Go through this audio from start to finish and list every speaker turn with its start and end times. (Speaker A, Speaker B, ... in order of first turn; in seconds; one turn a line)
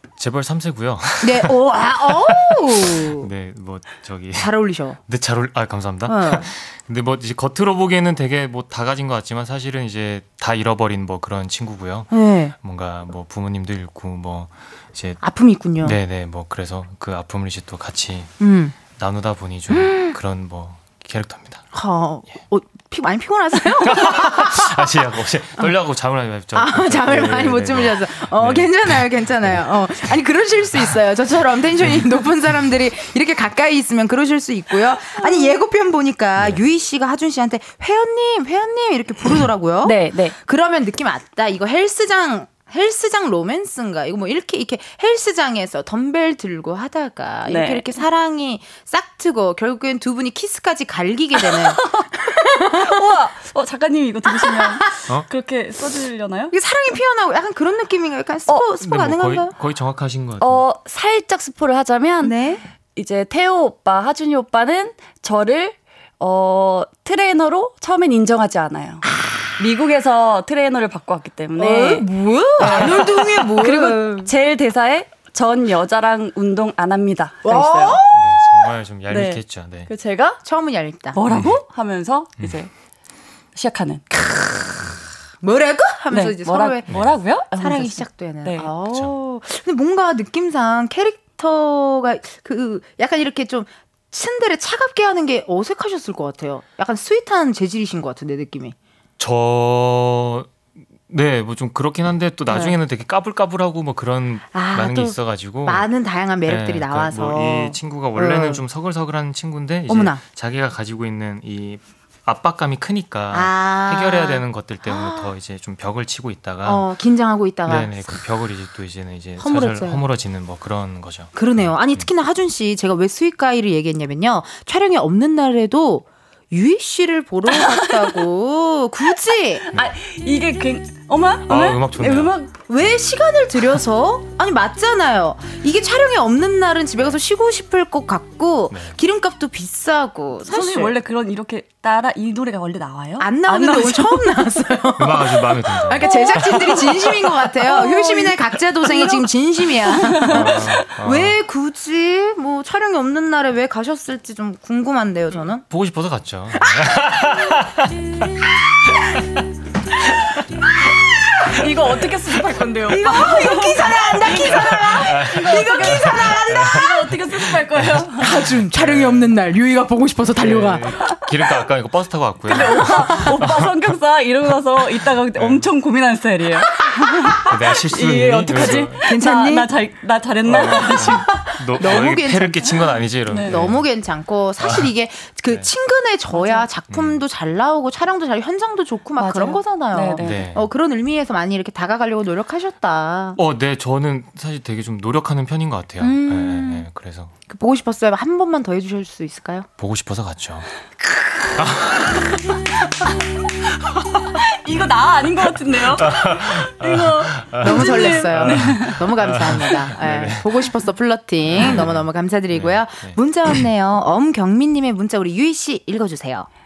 Speaker A: 0.2-1.6
Speaker B: 1.2-3.3
Speaker A: 2.1-4.5
Speaker B: 4.4-5.0
Speaker A: 5.1-15.2
Speaker B: 6.1-6.5
Speaker B: 12.1-12.5
Speaker B: 15.2-16.0
Speaker A: 15.8-18.3
Speaker B: 18.4-18.8
Speaker A: 18.9-21.6
Speaker B: 19.7-20.1
Speaker B: 21.7-24.8
Speaker A: 23.8-29.6
Speaker B: 26.5-53.0
Speaker A: 36.4-36.6
Speaker C: 39.8-40.4
Speaker C: 47.5-47.9
Speaker C: 51.4-52.1
Speaker C: 52.7-56.5
Speaker B: 54.4-54.8
Speaker B: 56.5-59.5
Speaker A: 58.8-60.6
Speaker C: 60.4-62.4
Speaker B: 62.2-62.6
Speaker C: 63.0-69.0
Speaker C: 69.6-72.1
Speaker B: 71.6-74.3
Speaker C: 72.7-72.9
Speaker C: 73.6-78.0
Speaker B: 77.4-78.4
Speaker A: 78.1-79.9
Speaker C: 79.1-80.4
Speaker B: 80.4-81.2
Speaker C: 81.1-82.7
Speaker A: 81.3-81.6
Speaker C: 83.5-84.0
Speaker B: 84.1-98.8
Speaker C: 86.1-88.7
Speaker A: 86.9-87.2
Speaker A: 99.2-100.5
Speaker A: 101.1-105.9
Speaker B: 102.5-102.8
Speaker B: 104.5-108.6
Speaker A: 106.5-116.8
Speaker B: 109.9-110.2
Speaker B: 113.3-115.3
Speaker B: 116.6-118.0
Speaker A: 117.7-122.1
Speaker B: 119.4-120.0
Speaker B: 121.3-129.6
Speaker C: 127.5-128.2
Speaker C: 129.7-132.5
Speaker A: 131.5-132.3
Speaker B: 132.7-140.9
Speaker A: 138.7-139.0
Speaker C: 140.5-144.3
Speaker B: 143.2-155.6
Speaker A: 145.0-147.1
Speaker C: 146.1-146.8
Speaker C: 147.6-149.2
Speaker C: 149.9-150.6
Speaker A: 150.2-151.4
Speaker A: 155.7-157.9
Speaker B: 156.6-157.2
Speaker C: 161.5-168.4
Speaker B: 162.9-167.1
Speaker A: 164.5-166.8
Speaker A: 167.8-169.4
Speaker B: 168.2-170.9
Speaker A: 170.4-173.7
Speaker C: 172.5-181.3
Speaker B: 172.7-173.0
Speaker A: 175.3-175.6
Speaker A: 177.4-179.1
Speaker B: 178.5-179.7
Speaker A: 180.5-183.9
Speaker B: 180.8-182.8
Speaker C: 183.3-183.6
Speaker B: 183.4-193.4
Speaker A: 184.6-184.9
Speaker C: 186.3-186.7
Speaker A: 186.9-187.2
Speaker C: 189.2-190.5
Speaker A: 190.2-190.7
Speaker A: 193.4-197.3
Speaker B: 196.0-196.9
Speaker B: 197.5-199.7
Speaker A: 199.8-200.7
Speaker A: 201.5-202.6
Speaker C: 204.4-209.0
Speaker A: 205.9-210.7
Speaker B: 207.6-216.5
Speaker A: 211.5-213.2